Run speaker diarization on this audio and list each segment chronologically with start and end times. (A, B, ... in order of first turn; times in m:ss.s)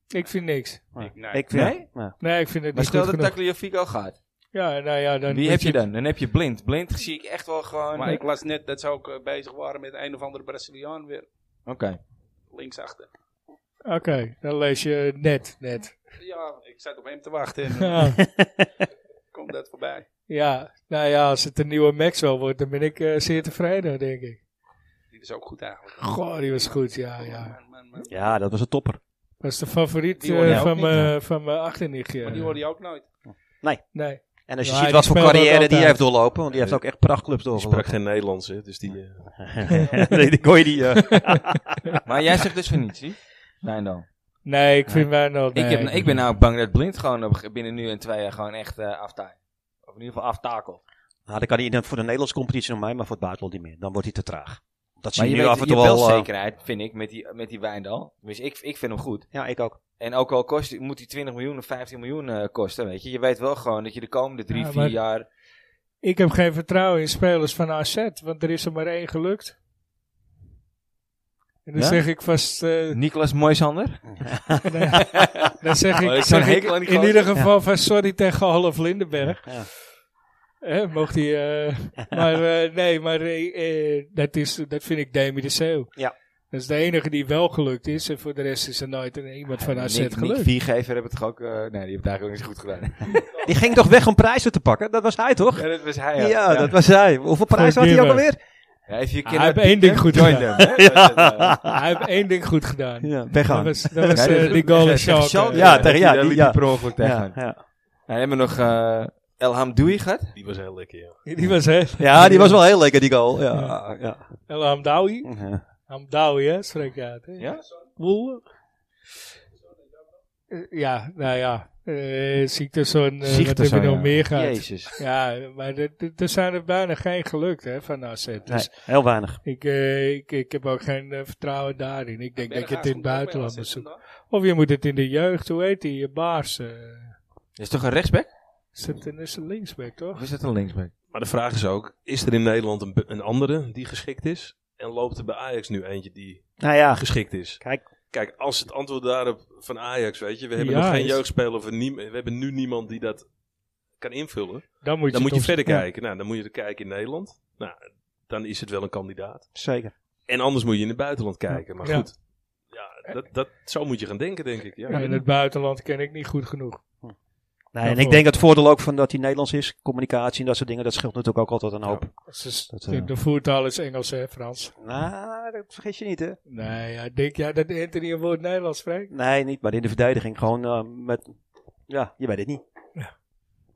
0:00.1-0:01.0 A
0:01.0-0:02.2 B
0:01.0-0:01.5 C
0:01.5-0:01.9 D
0:02.2-0:03.4 A
0:02.7-0:04.2 D
0:04.5-0:05.8 A
0:05.3-0:08.2 D
0:08.0-0:11.3 C
0:11.7-0:12.0 D
0:12.5-0:13.1 C
0:13.8-0:16.0 A
0:16.2-0:18.2 C
0:17.9-0:18.2 A
0:18.2-0:18.6 B
0:19.3-0:20.1 C
0:20.3-0:24.4 A
0:25.1-0:26.2 C
0:26.0-0:27.6 A
0:27.2-0:28.1 C
0:28.1-0:29.0 B
0:29.4-0:32.6 A
0:30.2-0:31.1 C
0:30.4-0:31.1 B
0:32.2-0:33.1 C
0:33.6-0:37.9 B
0:33.9-0:36.0 A
0:37.5-0:39.9 E
0:39.4-0:41.6 B
0:39.7-0:40.2 A
0:42.0-0:44.1 D
0:44.4-0:46.1 A
0:45.5-0:50.8 D
0:51.3-0:56.3 B
0:55.2-0:59.3 D
0:59.3-0:59.8 B
1:00.0-1:05.3 D
1:04.5-1:05.0 A
1:06.0-1:09.6 A
1:11.6-1:13.0 A
1:11.8-1:12.0 D
1:12.9-1:14.1 D
1:14.1-1:14.6 B
1:14.6-1:19.8 A
1:16.0-1:17.4 D
1:20.6-1:25.9 A
1:26.5-1:30.5 A
1:29.6-1:33.2 D
1:33.4-1:38.4 B
1:35.6-1:36.8 D
1:37.5-1:38.3 A
1:38.9-1:41.6 D
1:39.2-1:40.6 A
1:40.6-1:41.8 B
1:41.7-1:45.9 A
1:43.0-1:44.6 B
1:44.1-1:47.5 D
1:45.5-1:47.6 B
1:48.1-1:50.3 D
1:50.4-1:51.2 E
1:51.2-1:52.6 A
1:52.0-1:54.3 B
1:54.5-1:55.3 A
1:55.2-1:55.6 B
1:55.9-1:58.4 A
1:57.4-1:57.6 D
2:00.5-2:17.1 A
2:03.2-2:04.9 D
2:08.5-2:09.4 B
2:12.4-2:14.0 C
2:17.6-2:18.3 D
2:18.8-2:20.2 A
2:20.1-2:20.9 D
2:21.1-2:33.3 E
2:26.6-2:27.8 B
2:30.6-2:31.2 A
2:34.0-2:37.8 E
2:34.8-2:35.7 A
2:38.3-2:39.6 E
2:39.6-2:39.9 B
2:40.3-2:45.2 E
2:41.8-2:42.1 A
2:44.9-2:46.8 A
2:47.7-2:53.1 B
2:47.8-2:48.2 A
2:52.2-2:54.7 A
2:54.8-2:56.4 B
2:56.5-2:59.1 A
2:59.1-3:01.3 B
3:01.9-3:02.6 B